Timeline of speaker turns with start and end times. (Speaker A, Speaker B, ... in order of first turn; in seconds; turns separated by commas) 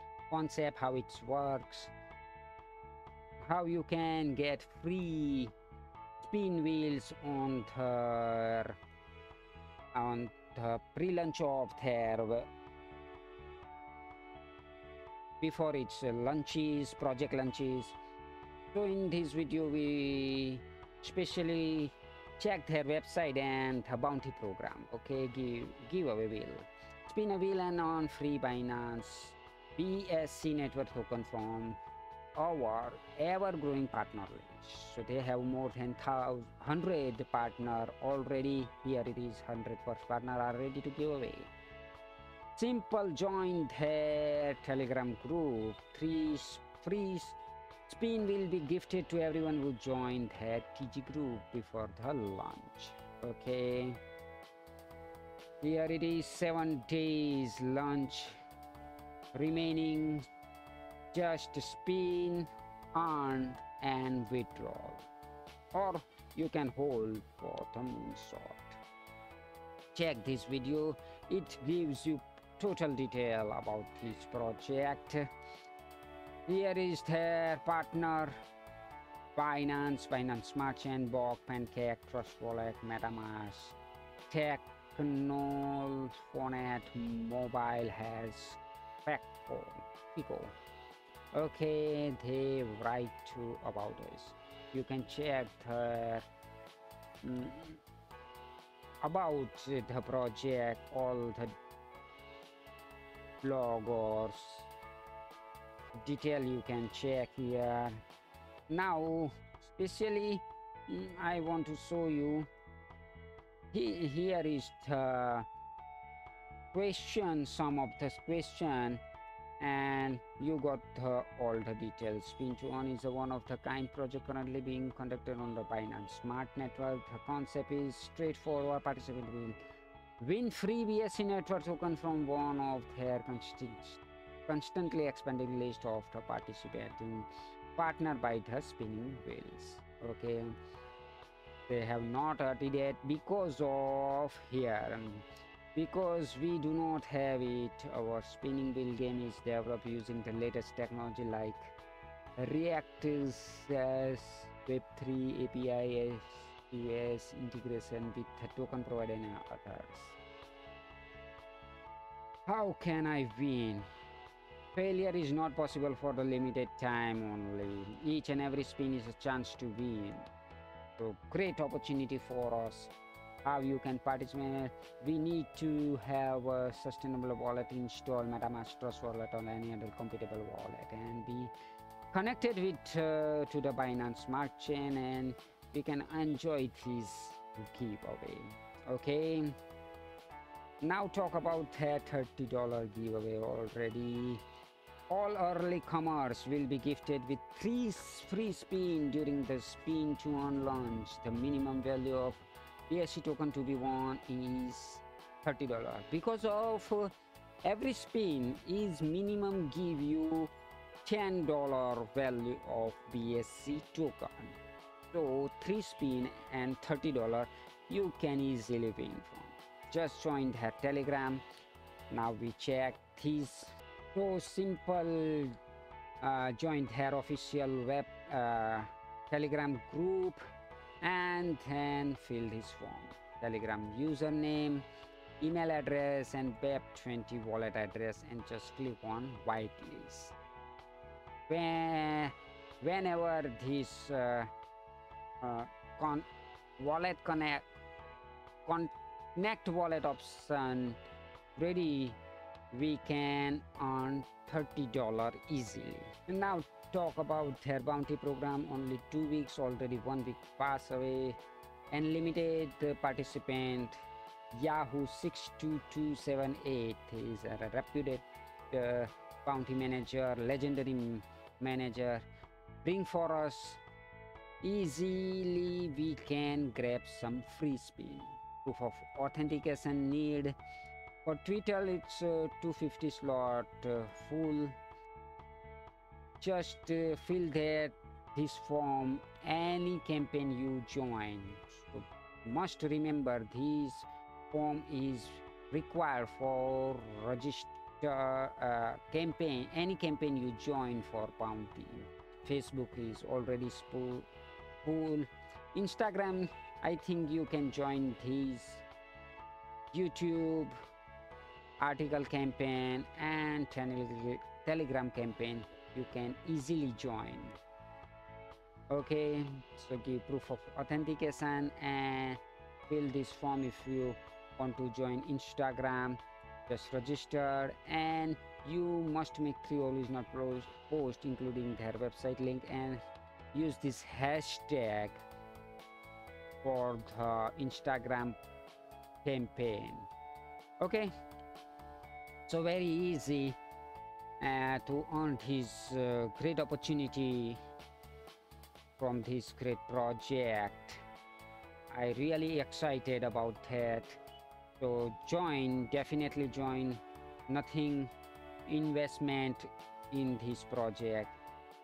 Speaker A: 0.3-1.9, Speaker A: 3.4-5.5, Speaker A: 6.2-8.8, Speaker A: 9.9-12.5, Speaker A: 15.4-18.0, Speaker A: 18.7-31.8, Speaker A: 32.4-41.5, Speaker A: 42.6-47.4, Speaker A: 47.9-54.0, Speaker A: 55.6-58.4, Speaker A: 59.3-60.3, Speaker A: 61.1-65.1, Speaker A: 65.7-68.8, Speaker A: 70.0-75.3, Speaker A: 76.5-78.3, Speaker A: 79.4-83.8, Speaker A: 84.3-90.5, Speaker A: 91.3-96.2, Speaker A: 97.2-97.8, Speaker A: 99.0-101.5, Speaker A: 103.4-104.7, Speaker A: 106.0-108.0, Speaker A: 108.7-112.5, Speaker A: 113.7-115.5, Speaker A: 116.7-119.0, Speaker A: 119.6-129.6, Speaker A: 130.2-140.5, Speaker A: 141.7-151.8, Speaker A: 152.4-160.2, Speaker A: 162.5-163.9, Speaker A: 164.8-170.3, Speaker A: 171.0-172.9, Speaker A: 173.4-181.5, Speaker A: 182.1-189.6, Speaker A: 190.8-194.4, Speaker A: 195.1-207.1, Speaker A: 207.6-210.5, Speaker A: 211.1-214.6, Speaker A: 215.1-221.4, Speaker A: 222.1-225.6, Speaker A: 226.2-230.4, Speaker A: 231.0-234.9, Speaker A: 235.4-240.4, Speaker A: 241.5-244.5, Speaker A: 245.4-246.3, Speaker A: 246.8-247.7, Speaker A: 248.7-251.0, Speaker A: 251.6-252.2, Speaker A: 252.7-261.4, Speaker A: 261.9-264.0, Speaker A: 264.5-272.3, Speaker A: 272.8-273.8, Speaker A: 274.6-280.6, Speaker A: 281.2-284.8, Speaker A: 286.4-304.3, Speaker A: 304.8-308.9, Speaker A: 309.9-310.7, Speaker A: 311.8-317.6, Speaker A: 318.9-333.0, Speaker A: 333.5-335.2, Speaker A: 336.6-338.4, Speaker A: 339.2-340.1, Speaker A: 340.8-341.1, Speaker A: 342.5-343.6, Speaker A: 344.4-347.6, Speaker A: 349.0-351.0, Speaker A: 351.9-354.2, Speaker A: 354.8-358.1, Speaker A: 358.7-361.4